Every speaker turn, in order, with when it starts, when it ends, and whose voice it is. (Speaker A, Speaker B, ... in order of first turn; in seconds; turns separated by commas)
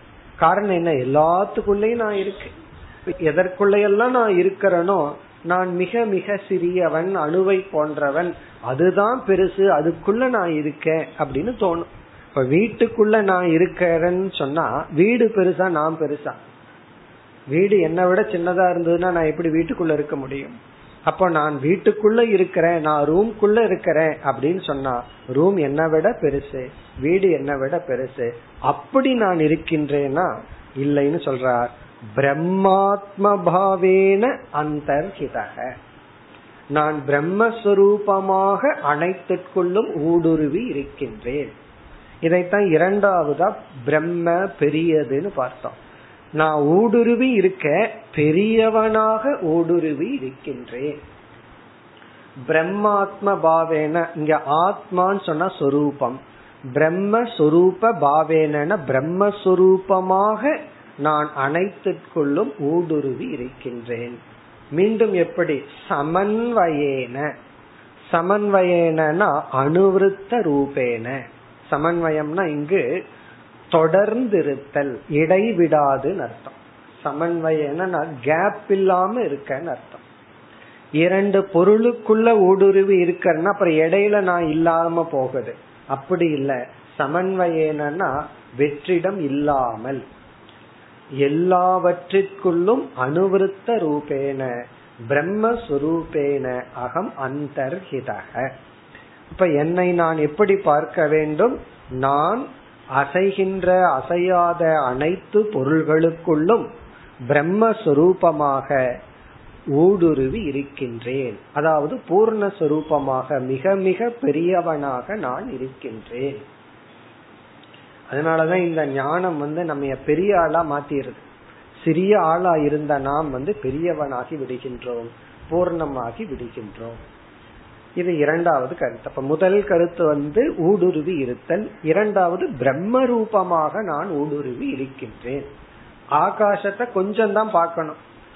Speaker A: 0.4-2.5, Speaker A: 3.2-16.4, Speaker A: 17.5-20.6, Speaker A: 21.1-30.3, Speaker A: 30.8-35.7, Speaker A: 36.7-41.5, Speaker A: 42.2-45.8, Speaker A: 46.4-50.9, Speaker A: 52.5-56.2, Speaker A: 56.8-64.2, Speaker A: 64.8-67.3, Speaker A: 68.1-71.2, Speaker A: 71.7-72.8, Speaker A: 73.7-80.0, Speaker A: 81.0-90.0, Speaker A: 91.2-94.5, Speaker A: 95.1-98.5, Speaker A: 99.3-102.5, Speaker A: 103.0-106.6, Speaker A: 107.3-108.8, Speaker A: 109.8-116.4, Speaker A: 118.1-121.2, Speaker A: 121.8-127.0, Speaker A: 128.0-135.5, Speaker A: 136.2-138.0